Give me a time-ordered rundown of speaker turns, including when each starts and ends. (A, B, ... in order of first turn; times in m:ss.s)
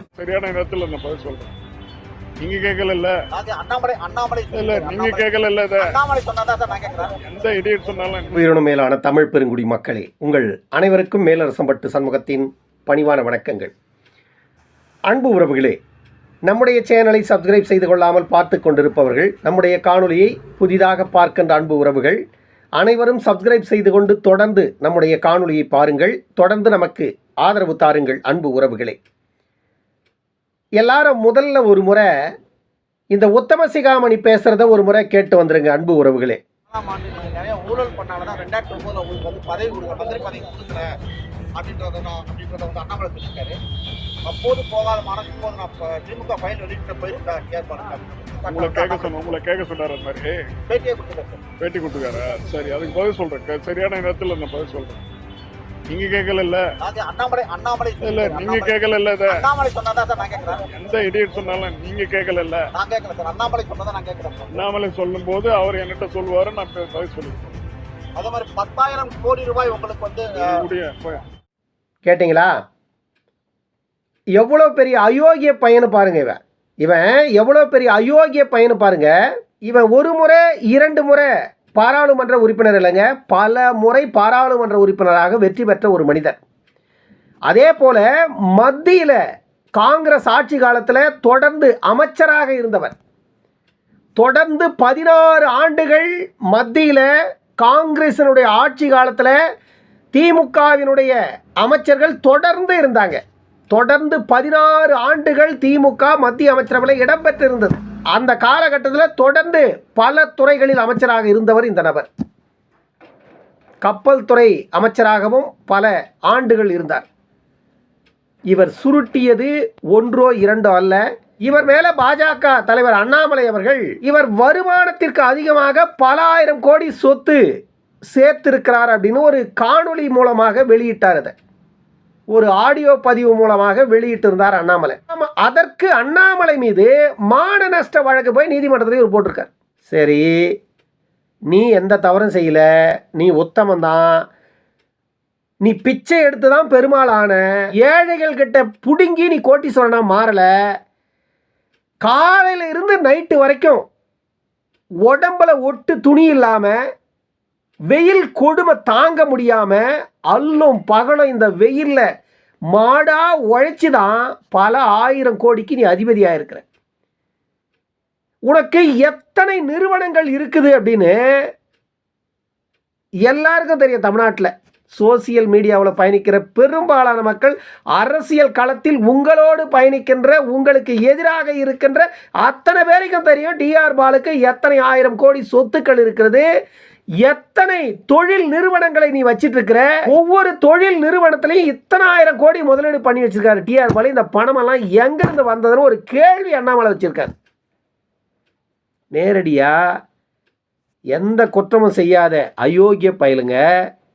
0:00.2-0:01.5 A
0:02.4-0:03.2 A
0:03.3-0:05.2 B
0:04.5-0:05.9 A
0:05.8-0:07.1 B
0:07.2-0:08.5 A
0:08.3-0:13.7 C
0:15.1-0:15.8 C
0:16.5-0:22.2 C
0:22.8-0:29.0 C
0:30.8-0:32.1 C
0:33.1-0:36.4 C
0:36.7-0:40.9 B
0:41.6-0:43.6 B
0:44.2-0:49.2 B
0:48.5-0:50.4 A
0:50.7-0:51.4 B
0:51.6-0:55.0 A
0:55.9-0:56.7 A
0:56.8-0:58.7 B
0:58.0-0:59.4 A
0:59.3-1:00.6 B
1:00.7-1:02.7 A
1:02.7-1:04.5 B
1:04.5-1:07.6 A
1:08.2-1:10.3 B
1:10.4-1:11.2 A
1:12.0-1:12.5 C
1:14.4-1:26.4 C
1:27.5-1:29.2 C
1:29.8-1:33.0 C
1:34.2-1:39.4 C
1:40.1-1:43.2 C
1:43.7-1:52.1 C
1:53.8-1:57.0 C
1:58.5-2:07.4 C
2:08.1-2:11.3 C
2:12.3-2:20.6 C
2:21.5-2:24.3 C
2:25.6-2:30.5 C
2:32.0-2:33.8 C
2:35.0-2:36.8 C
2:37.9-2:42.1 C
2:42.7-2:46.6 C
2:48.5-2:51.2 C
2:53.2-3:06.5 C
3:07.2-3:17.3 C
3:19.1-3:19.8 C
3:21.1-3:23.6 C